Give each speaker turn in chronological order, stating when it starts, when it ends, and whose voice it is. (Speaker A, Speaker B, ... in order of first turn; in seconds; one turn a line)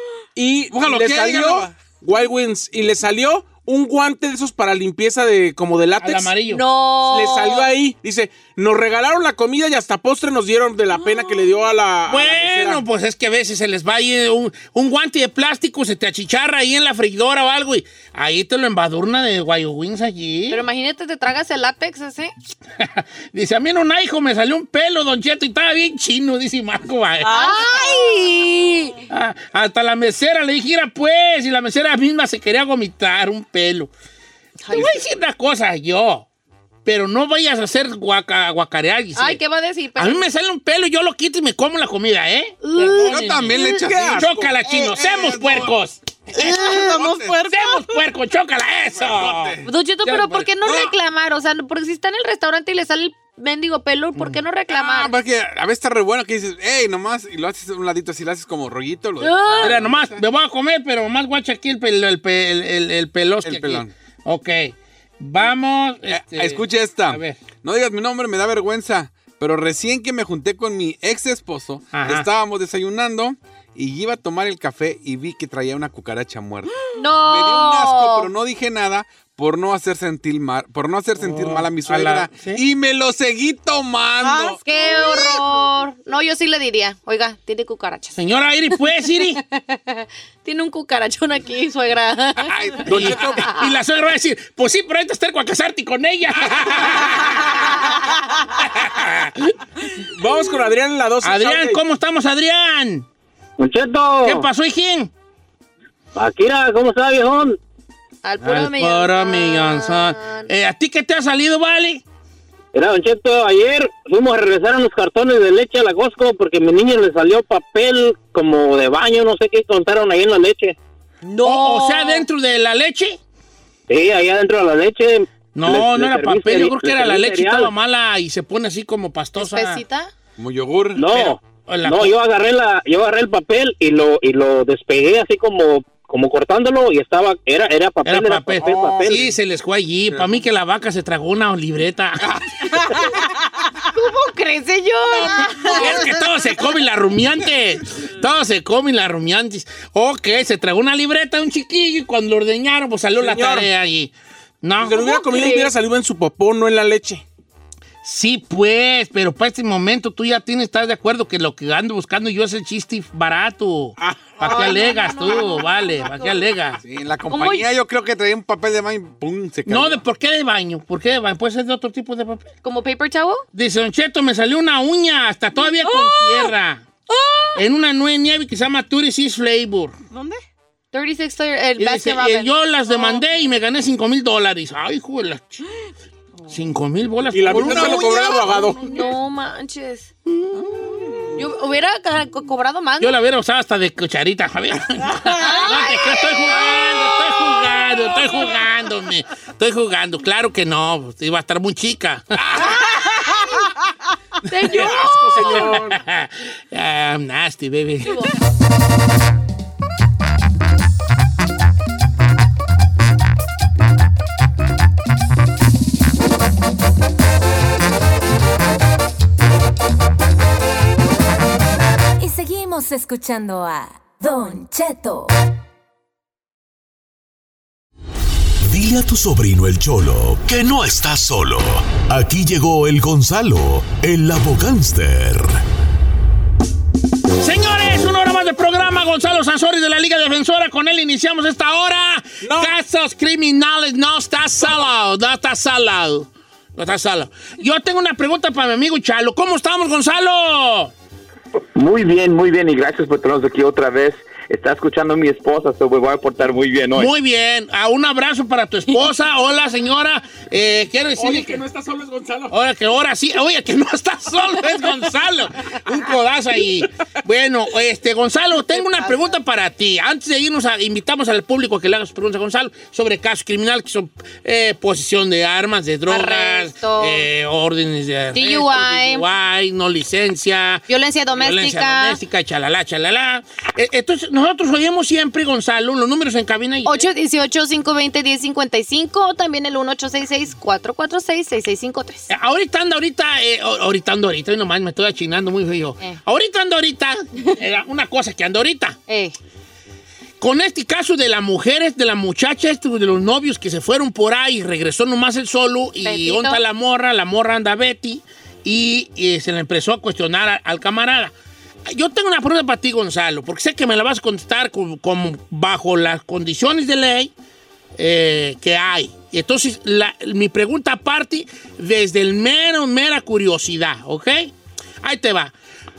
Speaker A: 0.3-6.3
Speaker B: 0.7-1.7
Speaker C: 6.0-6.6
Speaker D: 6.5-7.7
Speaker A: 7.0-12.8
Speaker C: 12.1-20.6
Speaker D: 20.5-22.3
Speaker C: 22.8-27.5
Speaker D: 27.2-29.0
Speaker E: 27.4-28.3
Speaker C: 29.1-33.9
Speaker D: 34.6-34.9
Speaker C: 34.7-36.2
Speaker C: 36.8-39.4
Speaker D: 39.1-40.2
Speaker C: 40.0-50.5
Speaker D: 42.6-43.8
Speaker B: 43.1-45.7
Speaker A: 43.9-44.3
Speaker B: 46.3-47.4
Speaker E: 46.4-47.9
Speaker B: 48.9-49.7
Speaker D: 49.6-55.1
Speaker B: 50.6-50.9
Speaker B: 54.7-60.2
Speaker D: 59.2-59.8
Speaker C: 59.6-67.4
Speaker B: 63.4-63.9
Speaker B: 66.1-84.6
Speaker C: 71.9-72.3
Speaker D: 76.9-78.3
Speaker C: 81.2-82.6
Speaker E: 84.2-85.4
Speaker D: 84.6-88.2
Speaker C: 88.2-89.4
Speaker D: 89.3-93.7
Speaker B: 92.4-93.3
Speaker C: 92.8-97.8
Speaker A: 92.9-93.4
Speaker C: 98.5-99.6
Speaker A: 100.1-101.8
Speaker C: 101.2-103.0
Speaker F: 103.6-104.5
Speaker C: 104.2-105.1
Speaker F: 106.1-107.6
Speaker D: 108.2-110.5
Speaker C: 108.4-112.0
Speaker F: 112.7-120.8
Speaker D: 121.2-122.2
Speaker C: 121.4-123.2
Speaker F: 123.9-127.7
Speaker C: 125.5-129.8
Speaker D: 129.4-130.1
Speaker B: 130.4-131.1
Speaker F: 130.9-139.2
Speaker C: 131.1-132.1
Speaker C: 138.0-142.8
Speaker B: 138.6-139.3
Speaker D: 143.9-146.1
Speaker C: 145.2-155.1
Speaker A: 153.2-153.7
Speaker A: 154.8-157.2
Speaker D: 154.9-155.7
Speaker C: 158.0-166.8
Speaker D: 164.4-166.2
Speaker B: 166.8-170.0
Speaker D: 167.3-167.7
Speaker C: 169.7-172.5
Speaker D: 172.6-173.4
Speaker C: 173.5-176.8
Speaker D: 175.8-176.5
Speaker D: 177.1-177.6
Speaker C: 177.5-179.9
Speaker E: 180.1-180.4
Speaker D: 180.9-183.2
Speaker C: 181.8-185.7
Speaker C: 186.5-188.3
Speaker A: 187.3-188.9
Speaker B: 187.5-188.3
Speaker D: 187.6-190.1
Speaker C: 190.2-190.9
Speaker D: 191.3-193.2
Speaker C: 193.0-203.4
Speaker D: 195.3-198.6
Speaker D: 202.8-203.3
Speaker D: 204.5-205.7
Speaker C: 204.6-208.2
Speaker A: 204.7-206.0
Speaker D: 208.0-208.3
Speaker G: 222.2-225.3
Speaker H: 228.6-235.6
Speaker C: 237.4-250.9
Speaker A: 242.4-242.7
Speaker I: 251.7-257.1
Speaker C: 256.9-261.6
Speaker A: 261.2-262.5
Speaker C: 262.5-287.1
Speaker D: 268.7-269.4
Speaker D: 276.1-277.2
Speaker D: 278.3-279.3
Speaker D: 280.9-282.2
Speaker D: 286.9-292.3
Speaker C: 292.3-299.0
Speaker D: 299.1-299.3
Speaker C: 300.4-311.3
Speaker D: 306.0-306.6
Speaker C: 311.9-317.3
Speaker C: 317.9-325.5